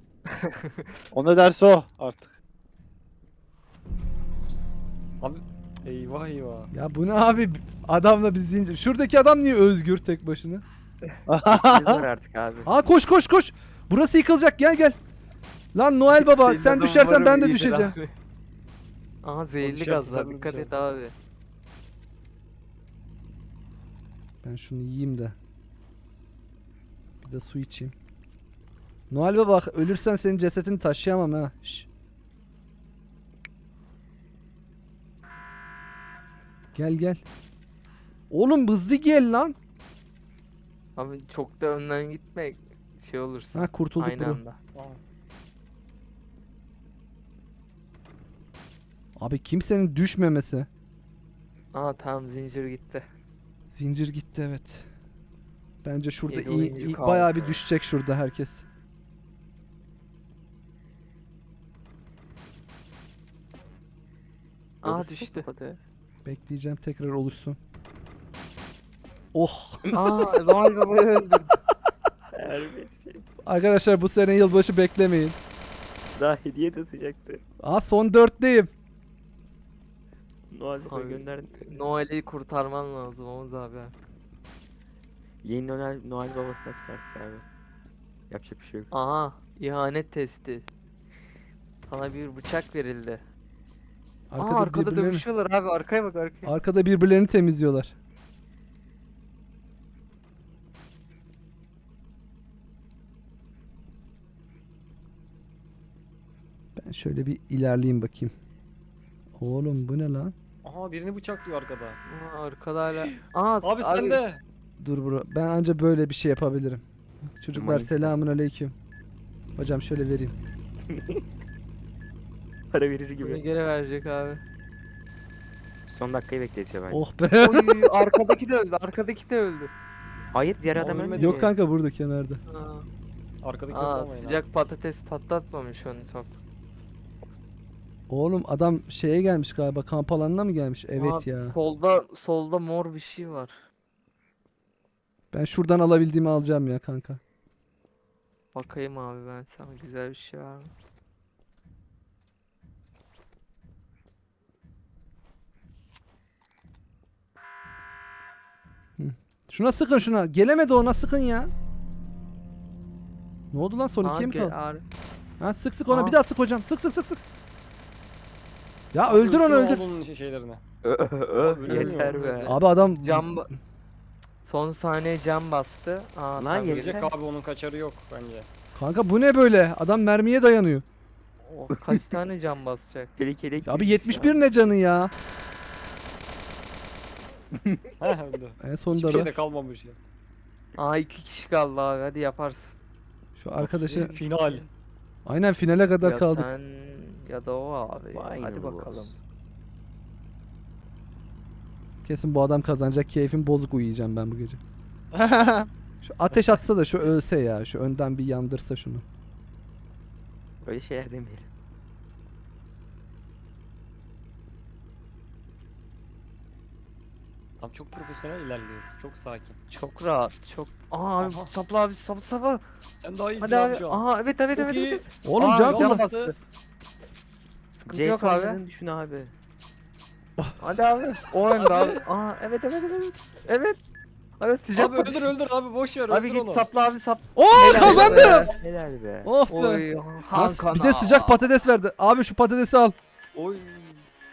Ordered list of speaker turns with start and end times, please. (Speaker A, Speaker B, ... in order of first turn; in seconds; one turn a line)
Speaker A: 0.3-0.9
Speaker B: 1.1-2.4
Speaker C: 5.2-6.7
Speaker D: 6.7-10.6
Speaker B: 11.3-12.0
Speaker E: 11.6-12.7
Speaker D: 12.7-14.9
Speaker D: 15.7-18.0
Speaker A: 16.1-18.1
Speaker A: 19.2-21.1
Speaker C: 19.6-20.7
Speaker D: 24.4-25.4
Speaker D: 27.2-27.9
Speaker D: 29.1-31.9
Speaker D: 36.7-37.2
Speaker D: 38.3-39.5
Speaker A: 41.0-44.6
Speaker D: 43.5-44.4
Speaker C: 44.7-45.0
Speaker D: 49.2-50.7
Speaker A: 51.7-53.0
Speaker D: 53.7-54.9
Speaker D: 55.8-58.6
Speaker A: 56.3-57.6
Speaker A: 64.8-65.5
Speaker E: 64.8-65.8
Speaker D: 66.2-67.6
Speaker D: 69.3-69.9
Speaker A: 69.9-71.5
Speaker E: 72.3-73.3
Speaker D: 73.4-75.3
Speaker E: 76.2-77.4
Speaker D: 77.6-78.7
Speaker E: 80.5-81.7
Speaker A: 80.9-83.9
Speaker E: 85.4-87.4
Speaker E: 88.3-88.9
Speaker A: 88.9-90.7
Speaker A: 91.9-93.2
Speaker D: 94.3-95.2
Speaker A: 94.3-96.5
Speaker D: 96.4-97.9
Speaker D: 106.8-108.3
Speaker D: 109.4-110.3
Speaker C: 110.6-112.0
Speaker A: 112.0-114.2
Speaker C: 113.6-114.4
Speaker D: 114.8-116.8
Speaker D: 117.4-118.7
Speaker C: 117.5-118.1
Speaker D: 119.6-120.3
Speaker E: 120.9-121.2
Speaker E: 122.7-123.4
Speaker A: 123.2-124.4
Speaker E: 125.9-127.0
Speaker D: 126.9-127.8
Speaker A: 127.3-129.7
Speaker E: 130.3-131.5
Speaker C: 130.8-131.4
Speaker D: 131.0-132.4
Speaker A: 132.5-132.9
Speaker C: 133.4-134.4
Speaker A: 133.7-136.3
Speaker D: 138.1-141.6
Speaker A: 140.9-143.5
Speaker D: 145.3-147.2
Speaker A: 148.5-150.7
Speaker D: 159.0-161.5
Speaker D: 163.5-164.6
Speaker A: 164.0-164.8
Speaker D: 165.4-167.2
Speaker A: 165.9-166.2
Speaker D: 168.9-169.8
Speaker C: 169.0-170.6
Speaker E: 170.8-172.6
Speaker C: 171.4-172.2
Speaker A: 171.6-173.5
Speaker D: 172.4-173.3
Speaker A: 174.4-177.0
Speaker E: 176.4-177.1
Speaker C: 176.6-178.5
Speaker D: 178.7-180.8
Speaker A: 181.5-183.1
Speaker E: 183.2-184.4
Speaker D: 183.6-185.1
Speaker E: 187.5-187.9
Speaker C: 188.0-190.0
Speaker D: 188.6-189.3
Speaker A: 190.8-192.8
Speaker D: 193.3-194.1
Speaker C: 193.6-194.7
Speaker E: 193.6-194.6
Speaker D: 195.2-196.5
Speaker A: 196.0-199.1
Speaker E: 198.1-199.1
Speaker D: 202.0-204.6
Speaker B: 205.1-205.7
Speaker D: 206.0-209.0
Speaker E: 210.6-211.5
Speaker C: 217.6-219.6
Speaker A: 219.7-222.6
Speaker C: 221.2-221.5
Speaker C: 223.0-226.3
Speaker A: 223.4-225.1
Speaker D: 225.2-226.0
Speaker A: 225.7-226.3
Speaker A: 227.7-228.6
Speaker E: 227.9-229.3
Speaker A: 230.6-233.8
Speaker C: 231.5-232.0
Speaker A: 234.4-235.3
Speaker C: 234.7-236.7
Speaker A: 236.1-238.5
Speaker D: 237.3-238.5
Speaker E: 237.6-239.3
Speaker C: 237.8-238.4
Speaker D: 239.2-242.9
Speaker A: 239.5-241.4
Speaker C: 243.3-244.1